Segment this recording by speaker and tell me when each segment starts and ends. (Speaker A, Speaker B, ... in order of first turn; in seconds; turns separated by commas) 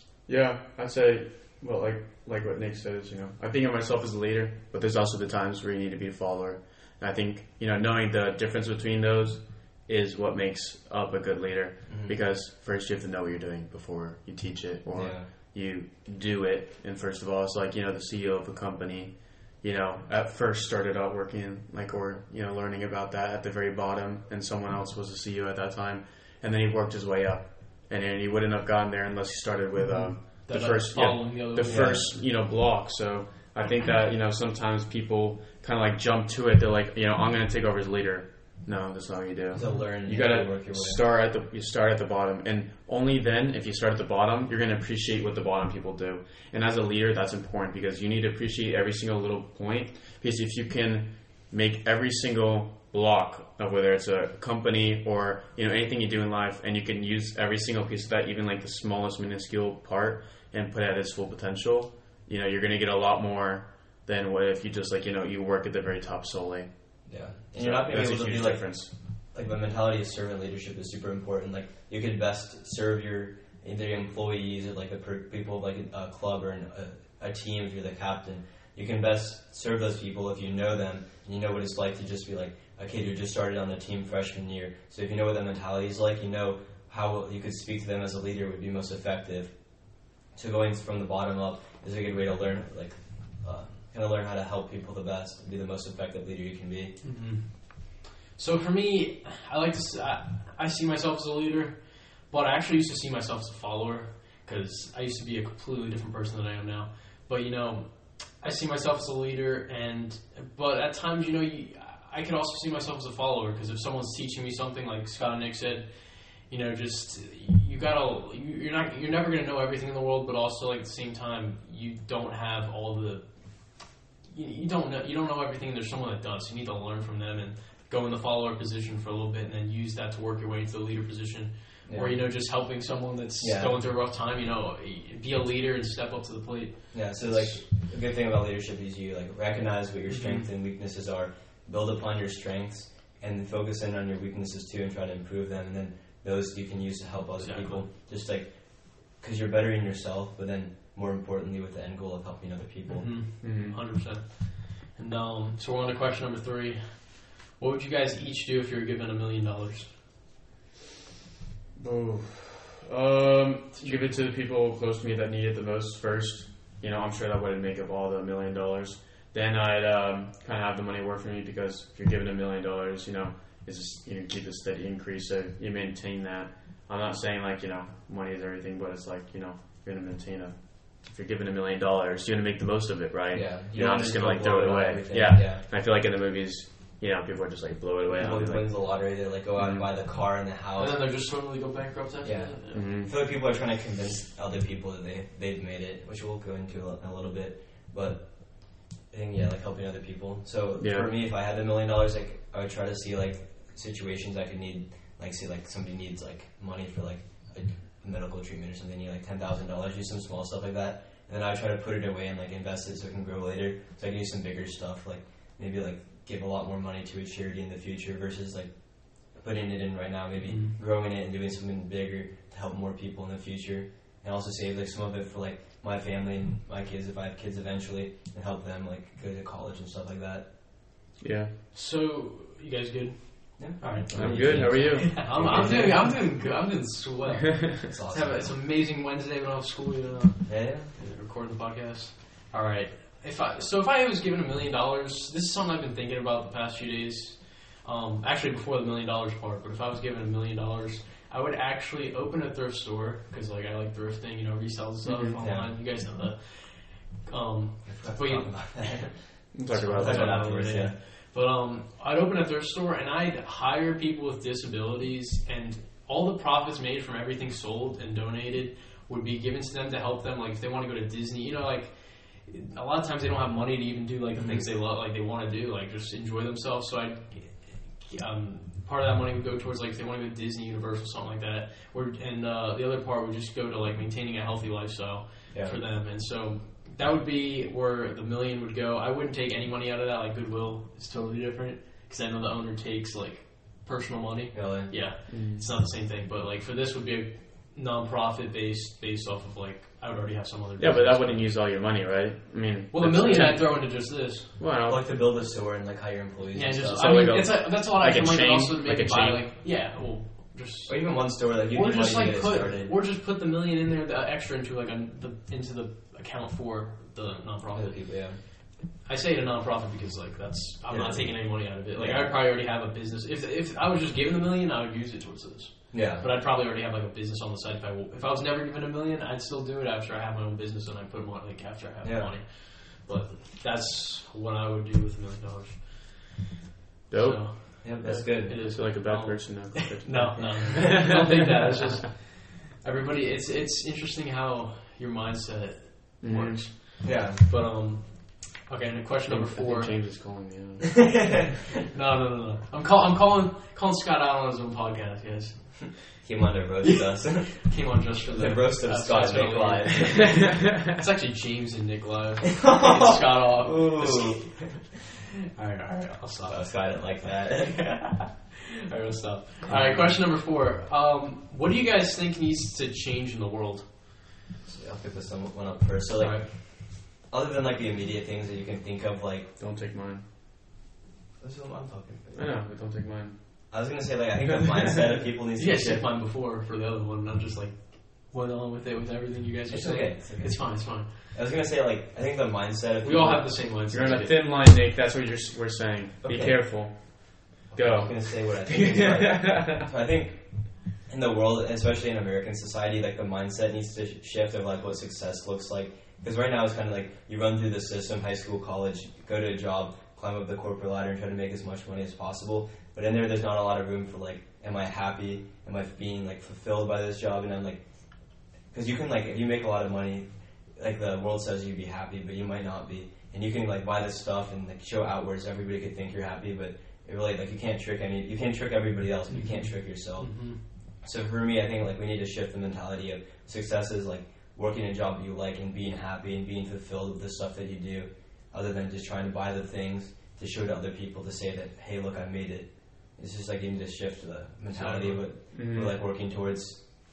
Speaker A: 0.3-66.7, Speaker B: 11.9-12.2, Speaker B: 14.9-15.3, Speaker C: 29.8-32.0, Speaker B: 31.6-32.1, Speaker B: 39.5-41.0, Speaker C: 39.6-39.9, Speaker B: 67.1-97.0, Speaker A: 67.5-68.9, Speaker C: 97.0-137.6, Speaker B: 131.9-132.2, Speaker B: 133.4-133.8, Speaker B: 136.9-153.2, Speaker C: 140.1-140.5, Speaker C: 147.4-147.8, Speaker C: 152.9-159.9, Speaker A: 153.4-153.8, Speaker A: 161.8-189.9, Speaker C: 163.8-164.1, Speaker B: 183.3-185.6, Speaker B: 188.1-191.0, Speaker C: 190.8-192.8, Speaker B: 192.2-230.5, Speaker A: 192.7-193.1, Speaker A: 200.8-201.1, Speaker C: 220.4-220.8, Speaker A: 231.2-231.5, Speaker C: 231.7-259.0, Speaker B: 233.6-236.2, Speaker A: 234.1-235.9, Speaker B: 237.9-238.5, Speaker B: 240.5-240.9, Speaker A: 255.1-255.4, Speaker B: 255.4-255.7, Speaker B: 257.9-260.9, Speaker A: 259.5-260.8, Speaker C: 259.7-301.5, Speaker B: 274.4-274.6, Speaker B: 285.5-285.8, Speaker B: 294.5-295.0, Speaker A: 295.3-295.7, Speaker A: 300.8-305.0, Speaker C: 302.9-304.6, Speaker B: 304.8-307.1, Speaker C: 306.5-336.4, Speaker A: 306.9-309.5, Speaker B: 310.9-312.9, Speaker B: 317.7-318.4, Speaker B: 320.9-322.3, Speaker B: 325.9-326.3, Speaker B: 332.0-332.3, Speaker A: 337.1-341.0, Speaker C: 337.1-350.2, Speaker B: 337.8-338.7, Speaker B: 340.4-340.9, Speaker A: 346.2-346.7, Speaker B: 347.0-347.4, Speaker A: 349.3-351.3, Speaker B: 351.0-351.6, Speaker C: 351.9-356.3, Speaker B: 356.2-360.4, Speaker C: 356.8-365.0, Speaker B: 362.6-364.9, Speaker C: 365.5-373.9, Speaker B: 366.5-367.8, Speaker A: 369.7-370.1, Speaker B: 374.6-379.5, Speaker C: 376.2-376.5, Speaker A: 379.6-380.2, Speaker B: 381.4-382.5, Speaker A: 382.4-383.4, Speaker B: 383.7-386.1, Speaker C: 385.6-391.1, Speaker B: 389.7-393.7, Speaker C: 393.0-394.4, Speaker A: 393.9-399.9, Speaker B: 396.2-397.0, Speaker B: 397.7-417.8, Speaker B: 418.7-446.8, Speaker C: 429.3-430.6, Speaker C: 444.7-445.3, Speaker A: 445.5-445.9